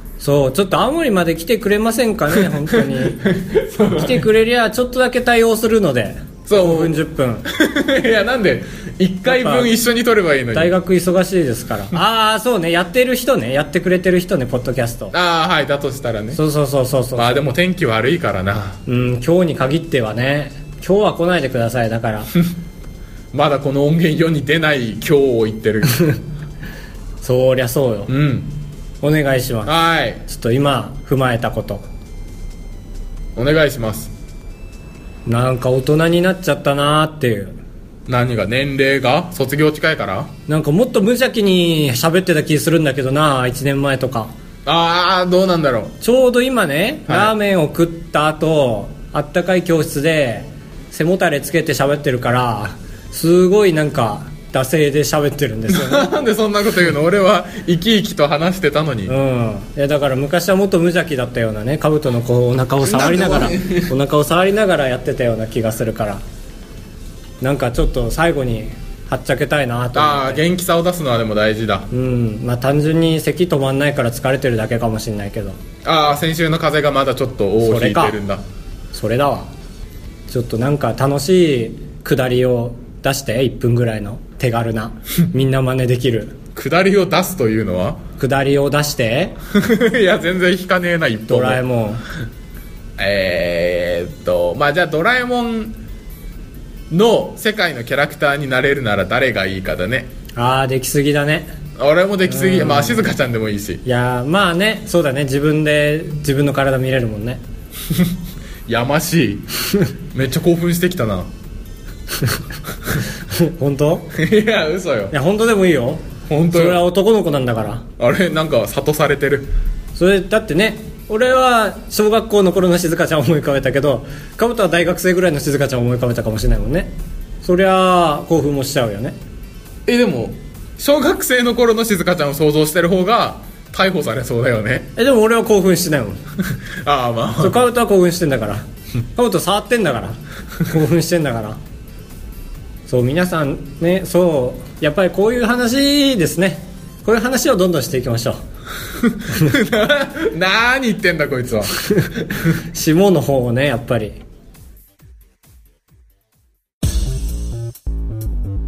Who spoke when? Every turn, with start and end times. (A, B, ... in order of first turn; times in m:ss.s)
0:00.2-0:03.3 A
0:02.3-0:04.3 B
0:03.9-0:07.5 A
0:06.5-0:10.8 B
0:09.3-0:09.7 A
0:10.5-0:15.1 A
0:15.1-0:16.4 B
0:16.3-0:17.4 A
0:17.2-0:18.8 B
0:18.9-0:22.3 A
0:23.3-0:26.1 B
0:25.9-0:26.2 A
0:27.2-0:28.1 A
0:28.1-0:28.6 B
0:29.0-0:31.9 A
0:29.7-0:30.2 B
0:33.4-0:34.1 B
0:35.3-0:37.6 A
0:38.1-0:40.3 B
0:40.5-0:44.3 A
0:44.7-0:46.0 B
0:46.0-0:56.1 A
0:47.1-0:47.3 B
0:55.7-0:59.2 B
0:59.1-1:06.2 A
1:02.8-1:03.9 B
1:07.4-1:10.4 A
1:10.0-1:11.9 B
1:11.9-1:15.6 A
1:15.8-1:18.4 B
1:17.6-1:18.2 A
1:18.9-1:19.5 A
1:20.3-1:26.4 A
1:26.6-1:28.0 B
1:28.2-1:29.4 A
1:29.5-1:31.6 B
1:31.3-1:32.0 A
1:33.0-1:35.8 B
1:36.9-1:40.1 B
1:40.4-1:41.5 A
1:41.8-1:43.8 B
1:42.2-1:43.0 A
1:43.8-1:47.4 A
1:48.7-1:49.5 B
1:50.1-1:51.3 B
1:53.2-1:54.1 A
1:54.1-1:55.1 B
1:55.1-1:57.9 A
1:56.3-1:56.8 B
1:58.0-1:59.5 B
2:00.0-2:09.2 A
2:09.9-2:14.9 B
2:15.0-2:16.2 A
2:16.5-2:17.6 B
2:17.4-2:21.6 A
2:22.9-2:28.4 A
2:29.0-2:31.8 B
2:31.8-2:34.2 A